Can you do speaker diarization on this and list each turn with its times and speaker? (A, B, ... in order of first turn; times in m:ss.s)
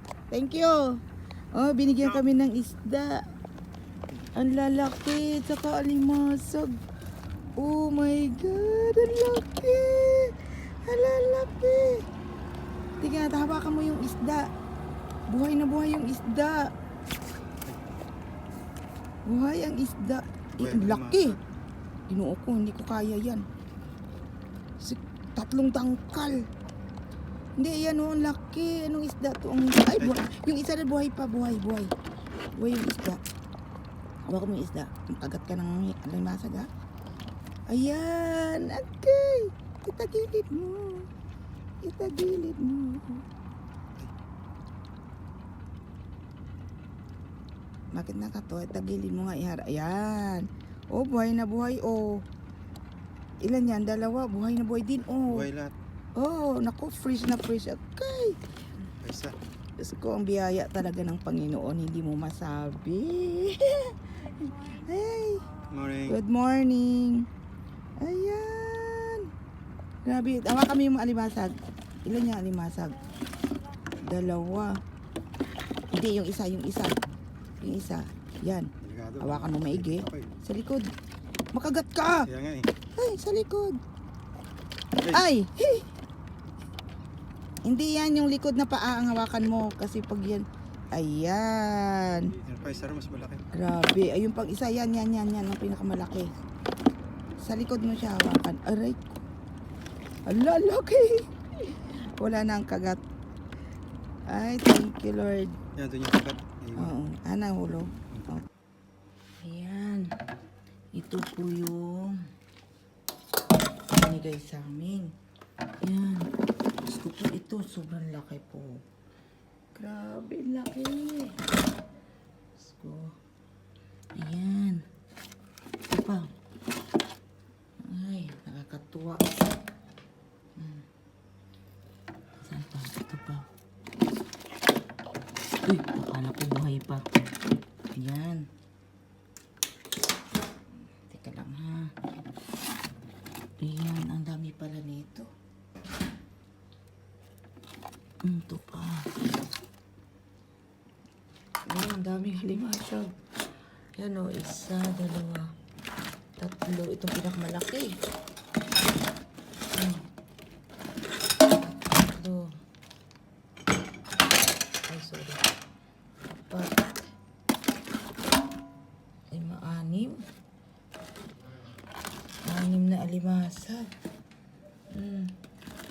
0:00.3-0:01.0 A
0:01.5-0:03.2 A
0:04.4-0:06.8 A
0:07.6-0:12.1 A
0:13.0-0:14.5 A
0:15.3-0:16.7 A
0:19.3-0:21.4 A
0:20.6-0:21.4 B
0:22.1-0:23.4 A
0:24.8-0:26.4 A
0:27.6-0:31.9 A
0:32.6-0:33.2 A
0:34.3-0:36.7 A
0:37.7-0:41.1 A
0:41.8-0:43.2 A
0:47.9-0:52.2 A
0:53.4-0:55.5 A
0:55.3-0:55.7 B
0:56.2-0:58.4 A
0:59.0-0:59.4 B
0:59.8-1:07.3 A
1:05.7-1:06.2 B
1:08.0-1:09.3 A
1:10.0-1:11.6 A
1:12.1-1:13.0 A
1:14.0-1:14.8 A
1:15.9-1:17.0 A
1:17.6-1:20.9 A
1:18.8-1:20.3 B
1:21.5-1:22.3 A
1:22.3-1:22.7 B
1:23.0-1:23.8 A
1:25.0-1:25.3 B
1:25.0-1:25.9 A
1:27.6-1:32.4 A
1:32.3-1:33.4 B
1:33.5-1:36.3 A
1:37.4-1:39.2 A
1:40.3-1:43.0 A
1:44.3-1:45.6 A
1:45.8-1:46.9 B
1:46.8-1:48.4 A
1:49.4-1:50.2 A
1:50.9-1:52.2 A
1:53.9-1:55.1 A
1:55.8-1:56.3 A
1:56.8-1:58.8 A
1:59.7-2:01.4 A
2:02.6-2:03.2 A
2:04.2-2:04.8 A
2:05.9-2:06.3 A
2:07.8-2:09.4 A
2:10.6-2:10.9 A
2:12.4-2:13.5 A
2:15.7-2:17.1 A
2:17.9-2:18.4 A
2:21.0-2:21.9 A
2:23.6-2:25.3 A
2:28.2-2:29.1 A
2:31.7-2:33.1 A
2:34.0-2:35.5 A
2:36.4-2:38.0 A
2:39.7-2:40.1 A
2:41.6-2:42.5 A
2:44.9-2:45.4 A
2:46.5-2:47.0 A
2:49.3-2:50.2 A
2:52.4-2:53.9 A
2:54.9-2:55.4 A